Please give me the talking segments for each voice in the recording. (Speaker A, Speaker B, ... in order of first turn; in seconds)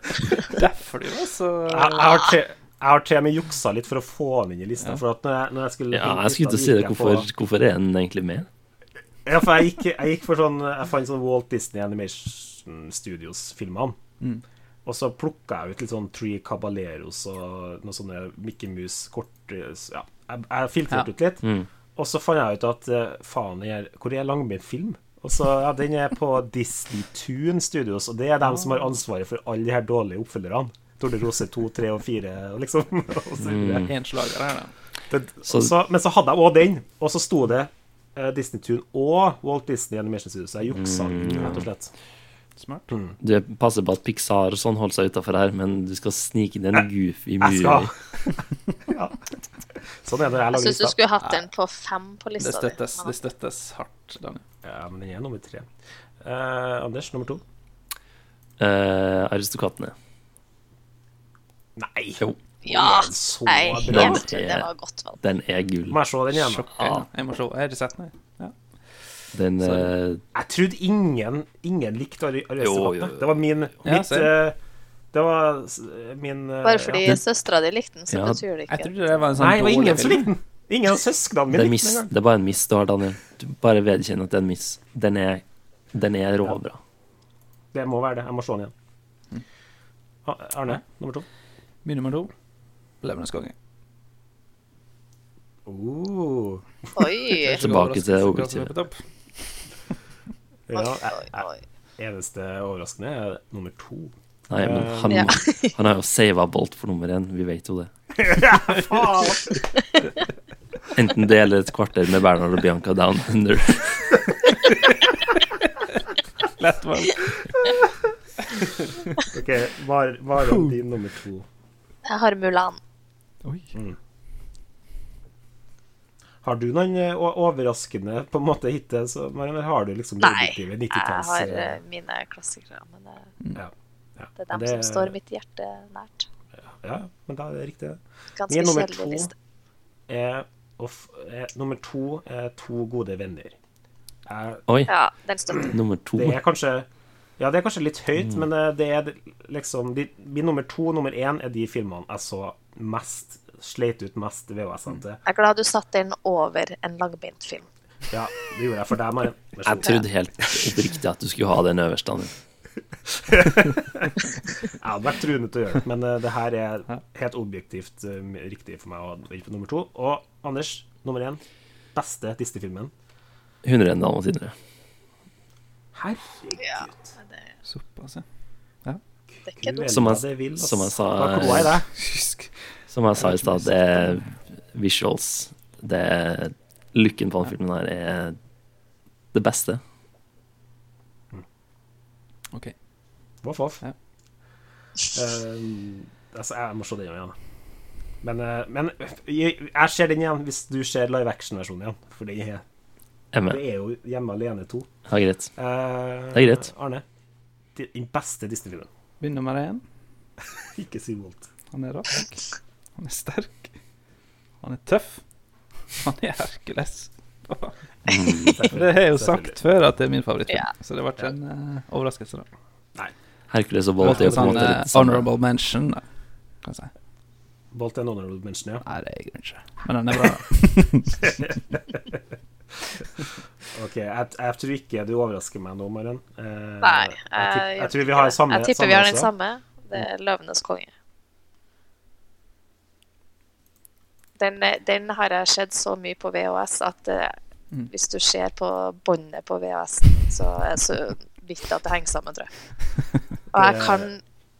Speaker A: 0.4-2.2, 33.8-34.7, 42.6-42.9, 52.4-54.4, 66.3-68.5, 69.6-69.9, 73.8-74.3, 78.7-80.3, 91.8-92.3, 93.0-93.5, 97.4-99.0, 116.6-117.7, 120.5-120.7, 123.4-123.7, 177.7-178.2, 182.0-182.5, 183.2-184.3, 209.2-209.8, 211.7-213.7, 214.6-215.2, 215.9-222.5, 224.0-226.0, 226.6-226.9, 228.8-231.3
Speaker B: 1.7-7.3, 9.2-14.0, 14.8-33.9, 35.1-41.9, 47.4-49.2, 50.0-51.0, 54.6-55.7, 56.2-57.4, 61.8-64.2, 65.9-66.7, 70.3-74.6, 75.1-77.0, 79.4-82.1, 87.7-88.7, 90.2-91.2, 95.7-96.6, 100.7-105.4, 108.2-109.6, 119.2-121.5, 126.4-131.8, 133.5-135.1, 136.8-139.3, 140.1-143.6, 144.2-144.6, 146.2-146.9, 147.4-155.2, 158.1-160.0, 163.1-171.4, 171.9-172.9, 175.9-177.1, 179.4-181.9, 193.4-193.8, 195.1-197.3, 198.2-202.6, 203.5-204.9, 205.6-207.0, 207.7-208.9, 210.7-211.5, 218.4-219.6, 224.0-224.7, 227.7-228.8, 231.3-232.2, 233.7-239.3, 253.5-254.1
Speaker C: 5.9-8.5, 33.4-33.9, 40.8-41.6, 43.2-47.9, 58.6-59.9, 63.8-64.7, 65.2-66.0, 66.7-67.0, 69.3-70.2, 72.6-73.3, 78.1-78.4, 81.5-86.8, 97.5-98.7, 104.5-107.9, 110.9-114.1, 145.6-146.4, 159.6-162.3, 173.6-174.5, 179.8-181.8, 182.9-188.3, 189.3-189.8, 203.3-203.6, 205.1-205.5, 206.3-206.7, 218.1-218.6, 223.5-225.2
Speaker D: 50.5-53.1, 62.6-65.2, 76.6-79.3, 97.0-97.6, 100.7-101.6, 105.1-105.7, 122.0-122.8, 130.2-133.3, 134.4-136.3, 138.3-139.3, 144.9-145.7, 155.2-157.7, 176.6-177.5, 179.5-179.8, 236.8-240.9, 244.4-247.4, 247.9-252.5, 253.5-254.2